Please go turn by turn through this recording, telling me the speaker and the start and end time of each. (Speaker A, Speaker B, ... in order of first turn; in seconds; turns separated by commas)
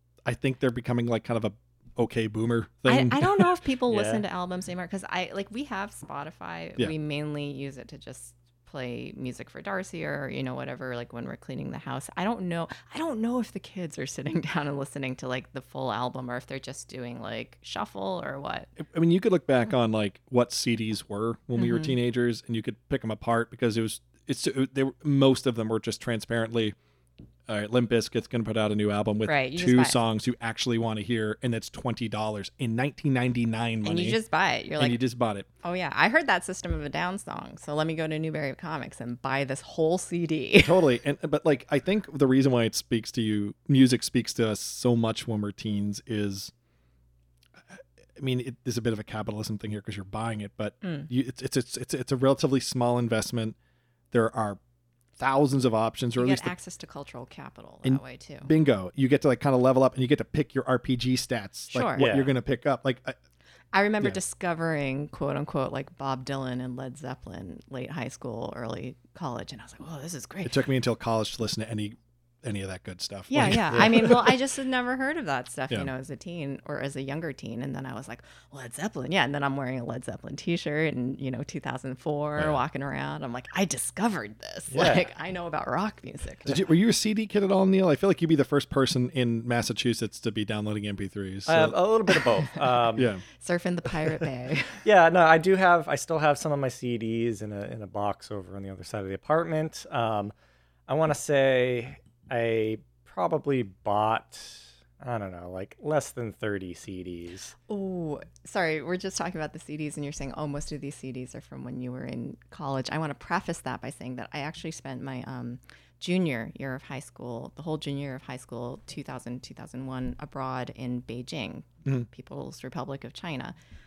Speaker A: 0.2-3.5, Speaker B: 2.9-18.7, Speaker C: 3.9-4.2, Speaker A: 18.8-26.8, Speaker B: 21.6-22.0, Speaker A: 27.5-34.2, Speaker B: 29.2-30.0, Speaker B: 33.8-35.0, Speaker A: 34.8-35.5, Speaker B: 35.6-40.8, Speaker A: 40.6-46.5, Speaker A: 47.7-53.5, Speaker B: 50.8-51.1, Speaker A: 54.1-54.6, Speaker A: 55.2-56.5, Speaker B: 56.2-58.5, Speaker A: 57.8-63.1, Speaker B: 61.7-62.2, Speaker C: 62.0-62.3, Speaker B: 63.7-70.6, Speaker A: 70.4-74.3, Speaker B: 73.3-86.6, Speaker A: 82.3-82.6, Speaker C: 84.7-85.1, Speaker A: 86.5-91.8, Speaker C: 91.5-93.1, Speaker A: 93.0-93.2, Speaker B: 93.3-94.8, Speaker C: 94.8-100.3, Speaker C: 100.9-107.5, Speaker B: 107.7-123.5